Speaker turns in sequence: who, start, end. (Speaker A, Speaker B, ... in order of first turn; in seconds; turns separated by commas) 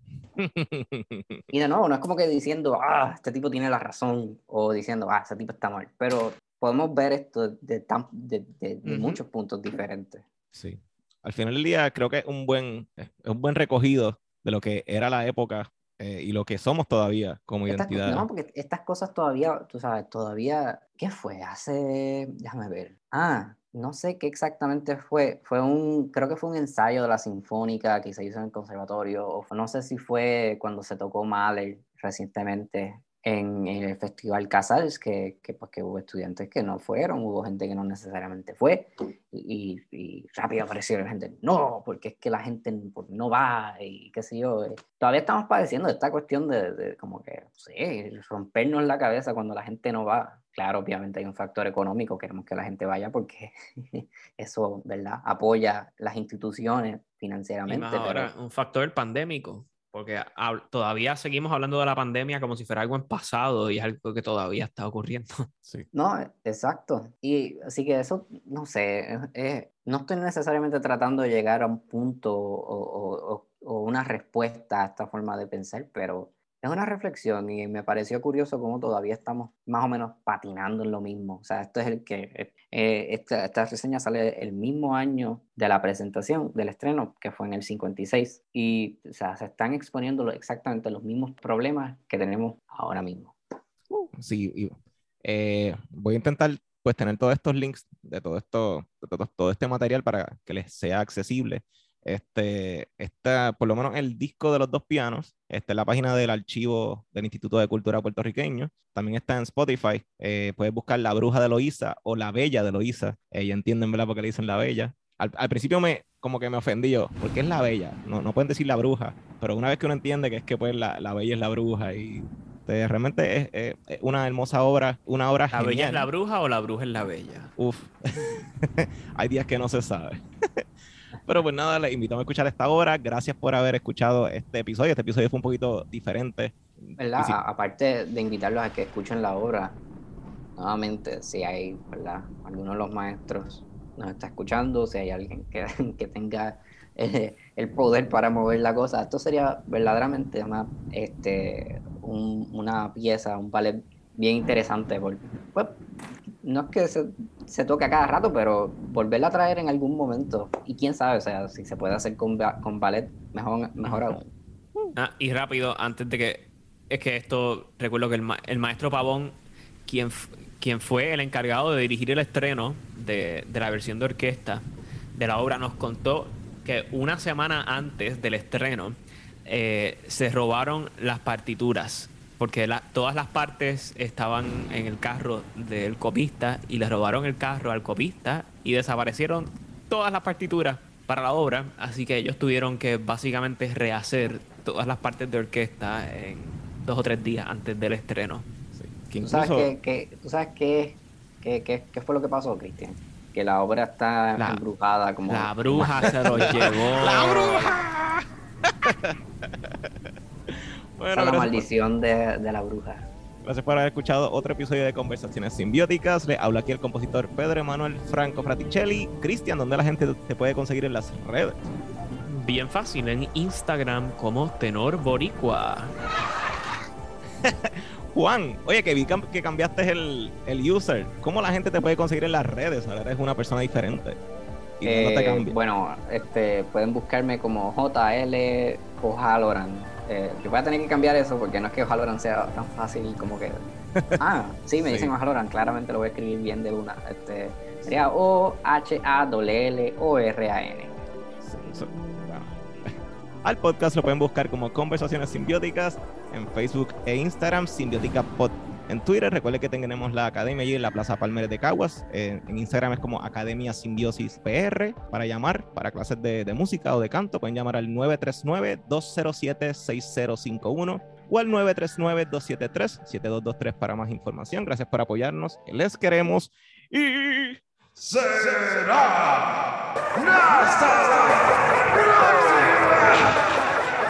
Speaker A: 0.3-1.4, Speaker B: 1.5-10.2, Speaker C: 8.8-9.2, Speaker A: 10.5-18.2, Speaker B: 17.7-58.3, Speaker C: 57.7-65.5, Speaker B: 65.9-93.3, Speaker A: 93.9-126.1, Speaker C: 125.5-127.5, Speaker A: 127.6-130.7, Speaker A: 131.2-137.4, Speaker B: 137.0-139.8, Speaker B: 140.6-155.8, Speaker B: 156.4-164.3, Speaker C: 164.9-198.4, Speaker A: 198.7-199.7, Speaker B: 199.2-206.6, Speaker C: 205.3-207.8, Speaker A: 205.7-211.7, Speaker B: 211.1-213.1, Speaker A: 213.4-221.6, Speaker C: 222.2-225.9, Speaker A: 227.4-234.2, Speaker A: 234.8-235.5, Speaker B: 234.8-243.6, Speaker B: 244.2-250.9, Speaker A: 244.8-245.1, Speaker A: 251.4-277.6, Speaker A: 278.1-279.3, Speaker A: 280.4-281.2